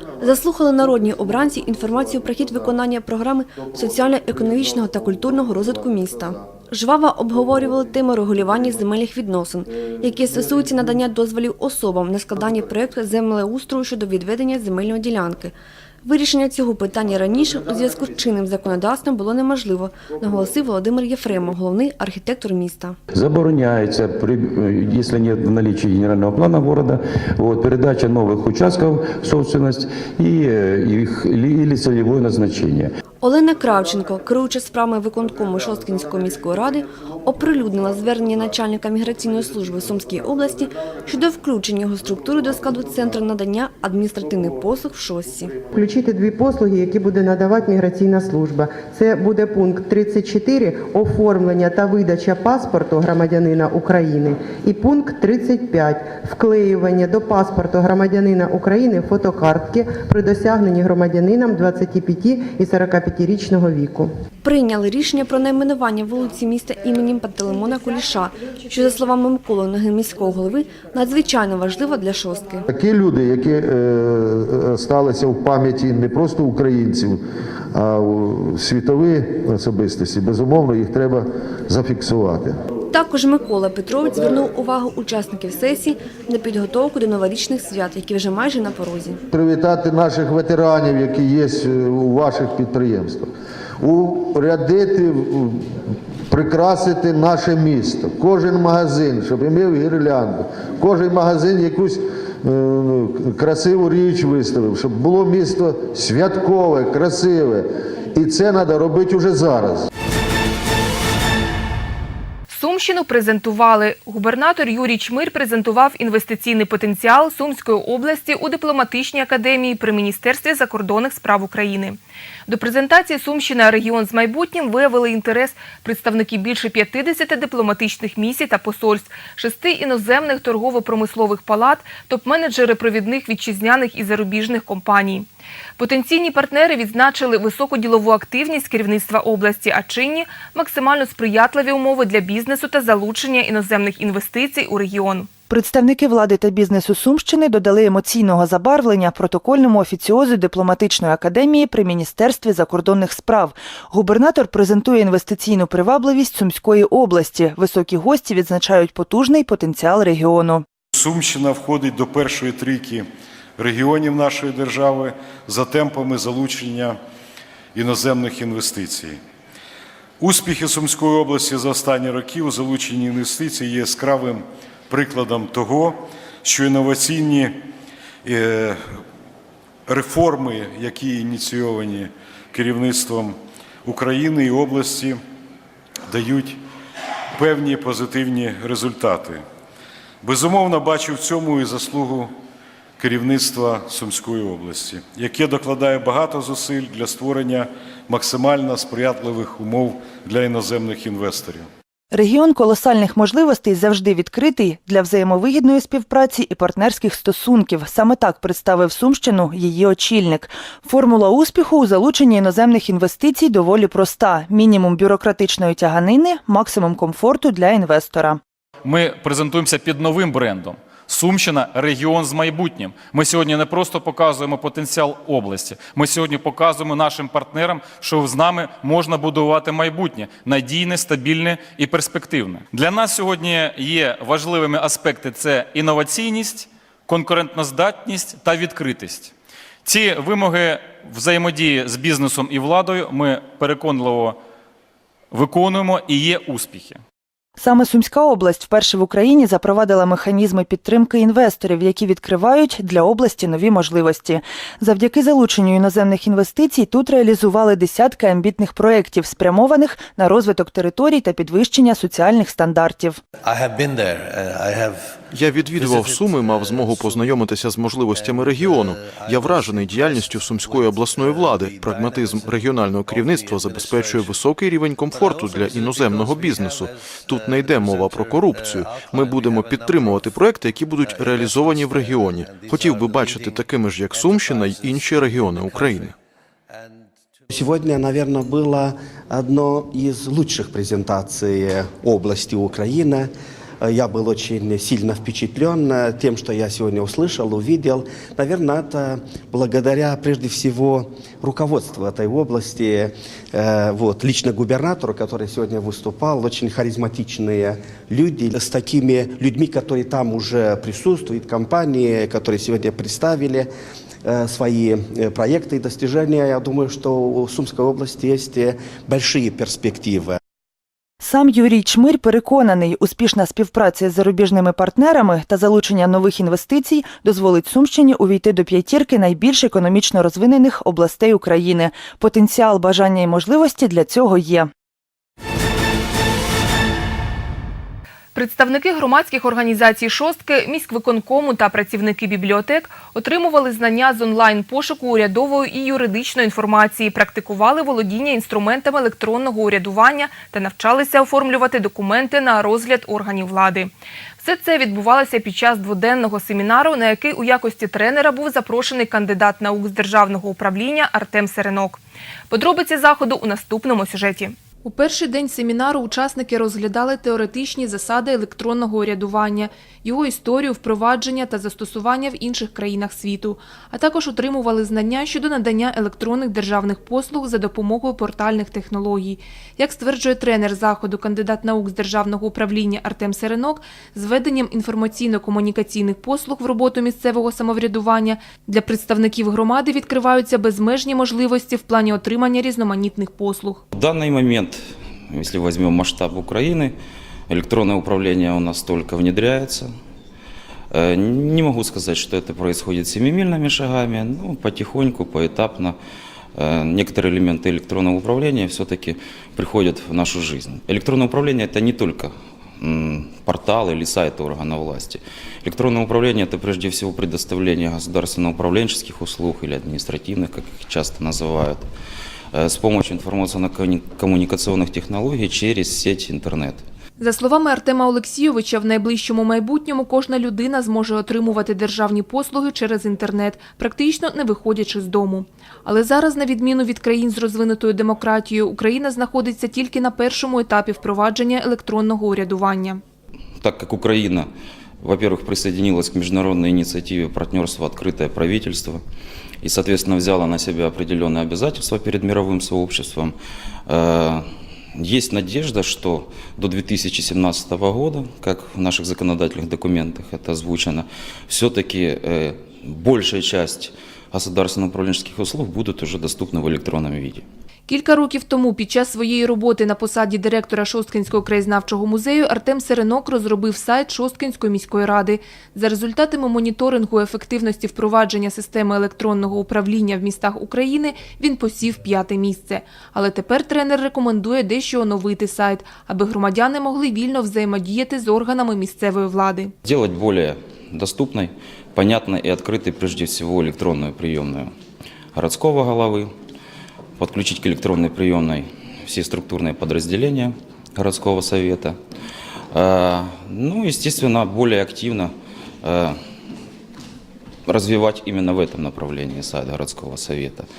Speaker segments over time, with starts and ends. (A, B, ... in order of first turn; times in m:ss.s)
0:00.2-0:23.0 A
0:23.1-0:32.9 B
0:33.2-0:45.6 A
0:45.8-1:04.1 C
1:04.4-1:12.6 A
1:12.7-1:17.2 D
1:17.8-1:22.6 D
1:22.9-1:29.2 A
1:29.3-1:33.3 D
1:33.8-1:35.6 D
1:36.3-1:47.6 D
1:48.2-1:49.9 D
1:52.5-2:25.3 E
2:25.5-2:40.6 F
2:41.0-2:43.0 G
2:43.6-2:47.0 G
2:47.8-2:49.2 G
2:50.2-2:57.5 G
2:58.2-2:58.8 G
2:59.9-3:05.2 G
3:06.1-3:06.6 G
3:07.4-3:09.4 G
3:10.2-3:12.3 G
3:13.0-3:21.7 G
3:22.1-3:38.4 F
3:38.8-3:59.3 H
3:59.8-4:04.4 H
4:05.3-4:07.0 H
4:07.6-4:23.2 F
4:23.5-4:46.2 I
4:47.5-4:53.3 J
4:53.8-5:13.7 J
5:14.2-5:20.4 J
5:21.2-5:34.7 F
5:38.4-6:02.0 E
6:02.5-6:33.8 E
6:33.9-6:34.8 K
6:35.3-6:37.0 K
6:37.5-6:39.9 K
6:40.9-6:46.0 K
6:46.6-7:01.8 K
7:02.5-7:06.8 K
7:07.2-7:23.0 E
7:23.6-7:24.5 K
7:25.0-7:29.0 K
7:29.6-7:33.3 K
7:33.9-7:34.4 K
7:35.0-7:47.4 K
7:47.9-8:09.7 E
8:09.8-8:14.7 K
8:15.4-8:16.3 K
8:17.2-8:22.0 K
8:22.7-8:25.3 K
8:25.8-8:26.2 K
8:27.7-8:30.7 K